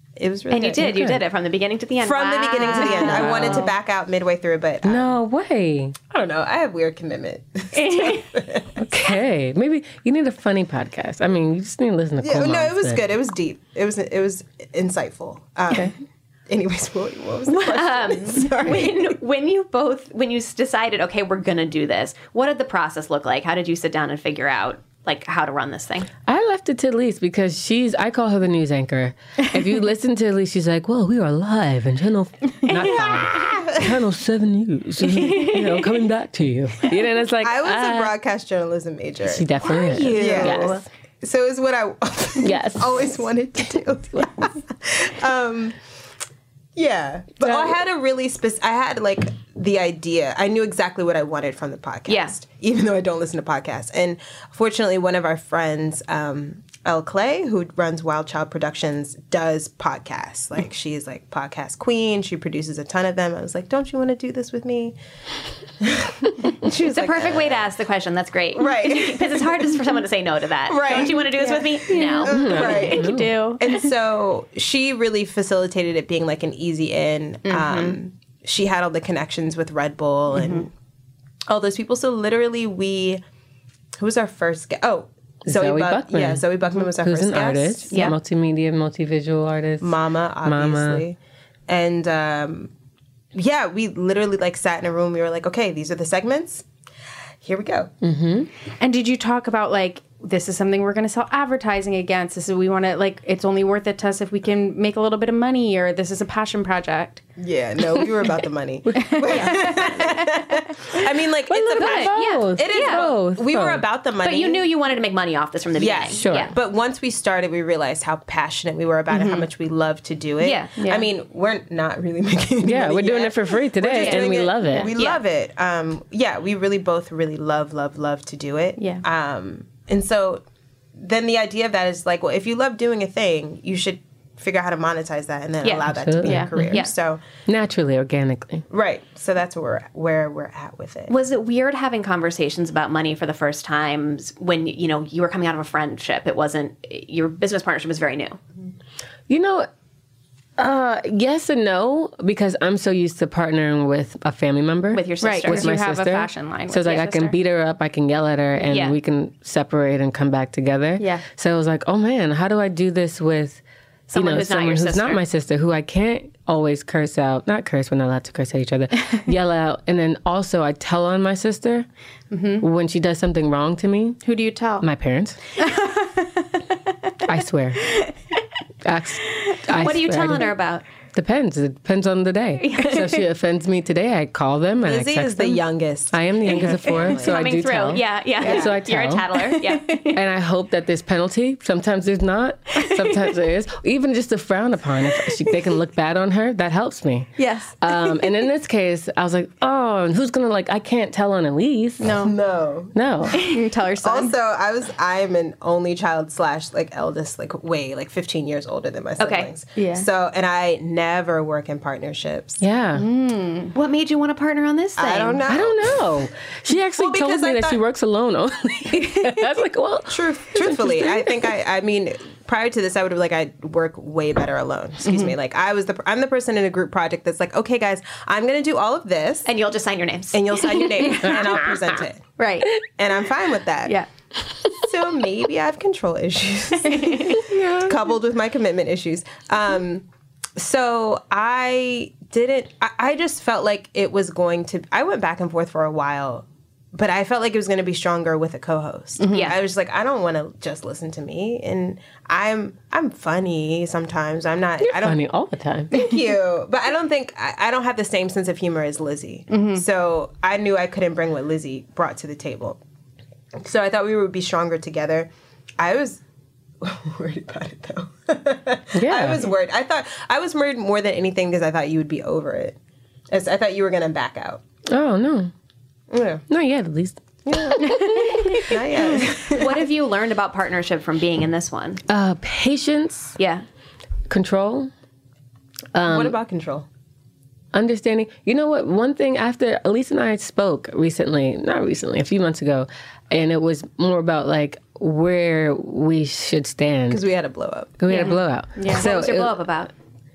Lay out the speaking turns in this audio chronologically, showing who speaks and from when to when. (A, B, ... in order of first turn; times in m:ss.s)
0:00.2-0:00.9 A
0:00.5-0:03.7 B
0:00.7-0:01.2 C
0:02.0-0:05.2 A
0:02.9-0:03.7 C
0:04.8-0:06.0 C
0:06.1-0:08.8 A
0:07.8-0:08.2 B
0:08.8-0:13.0 C
0:12.2-0:16.0 A
0:16.5-0:19.2 A
0:17.5-0:26.1 B
0:26.3-0:38.2 C
0:32.7-0:33.9 A
0:37.4-0:39.5 A
0:39.2-0:40.8 C
0:39.8-0:40.8 B
0:40.1-0:45.8 A
0:42.4-0:43.2 C
0:46.8-1:05.0 A
0:47.4-0:47.8 C
0:52.1-0:52.3 B
1:05.8-1:07.7 A
1:06.7-1:12.6 B
1:08.6-1:09.8 A
1:10.7-1:20.7 A
1:10.9-1:13.9 D
1:12.3-1:13.5 C
1:17.5-1:18.0 B
1:20.3-1:20.6 D
1:21.5-1:23.2 A
1:24.0-1:27.9 A
1:25.5-1:31.0 C
1:27.9-1:28.2 B
1:29.8-1:31.2 A
1:31.7-1:32.7 A
1:33.3-1:36.6 A
1:37.4-1:37.9 A
1:38.0-1:38.5 C
1:38.8-1:47.2 D
1:47.4-1:54.7 A
1:49.0-1:50.5 D
1:51.5-1:53.8 C
1:51.8-1:53.1 B
1:54.2-1:56.5 B
1:55.8-2:10.4 A
1:56.1-1:56.5 C
1:59.1-1:59.4 D
2:00.4-2:00.8 B
2:00.8-2:01.1 D
2:02.6-2:04.9 C
2:05.0-2:05.2 B
2:08.8-2:09.0 D
2:11.0-2:17.2 A
2:15.6-2:15.9 B
2:15.9-2:16.8 C
2:16.2-2:16.5 D
2:17.5-2:18.7 C
2:18.7-2:21.1 A
2:21.1-2:28.4 B
2:29.3-2:29.7 C
2:30.6-2:43.6 C
2:34.9-2:35.7 B
2:35.2-2:37.4 D
2:38.7-2:39.0 B
2:41.0-2:41.2 D
2:44.1-2:45.2 B
2:44.1-2:51.9 C
2:52.3-2:52.6 D
2:52.6-2:54.2 C
2:54.2-2:54.9 D
2:54.8-2:55.4 C
2:55.6-2:56.3 D
2:57.2-2:58.0 C
2:58.8-3:00.5 C
2:59.7-3:00.8 B
3:01.2-3:09.3 C
3:02.6-3:03.1 B
3:04.8-3:07.4 A
3:07.0-3:10.2 B
3:08.4-3:08.8 A
3:09.4-3:10.0 D
3:10.1-3:22.2 C
3:17.4-3:18.3 D
3:22.0-3:22.3 D
3:22.1-3:23.0 A
3:22.9-3:23.4 C
3:23.3-3:24.4 D
3:24.0-3:32.6 A
3:29.2-3:29.5 B
3:29.8-3:30.1 D
3:32.6-3:33.1 C
3:33.0-3:33.7 D
3:33.7-3:35.4 B
3:35.0-3:36.0 A
3:35.5-3:41.2 C
3:37.0-3:37.8 A
3:40.1-3:49.5 A
3:45.0-3:45.3 D
3:49.5-3:51.1 B
3:50.3-3:52.2 A
3:51.3-3:51.7 C
3:52.4-3:52.7 D
3:53.0-3:54.0 A
3:54.7-4:00.0 A
3:57.4-3:58.0 C
4:00.6-4:15.2 A
4:09.2-4:09.5 D
4:09.3-4:09.6 B
4:14.8-4:15.9 C
4:15.9-4:22.8 A
4:19.5-4:19.8 D
4:23.6-4:26.2 A
4:26.8-4:32.8 A
4:28.9-4:29.5 C
4:33.3-4:34.6 A
4:34.9-4:35.5 C
4:36.1-4:36.4 A
4:36.5-4:38.6 C
4:37.5-4:39.9 A
4:37.9-4:38.2 D
4:39.5-4:42.0 B
4:42.1-4:43.4 C
4:43.4-4:43.6 B
4:44.3-4:44.9 C
4:45.9-4:46.4 C
4:46.1-4:46.9 A
4:47.7-4:57.2 C
4:57.1-4:58.0 A
4:58.0-4:59.6 C
4:58.8-4:59.0 D
4:58.9-4:59.9 B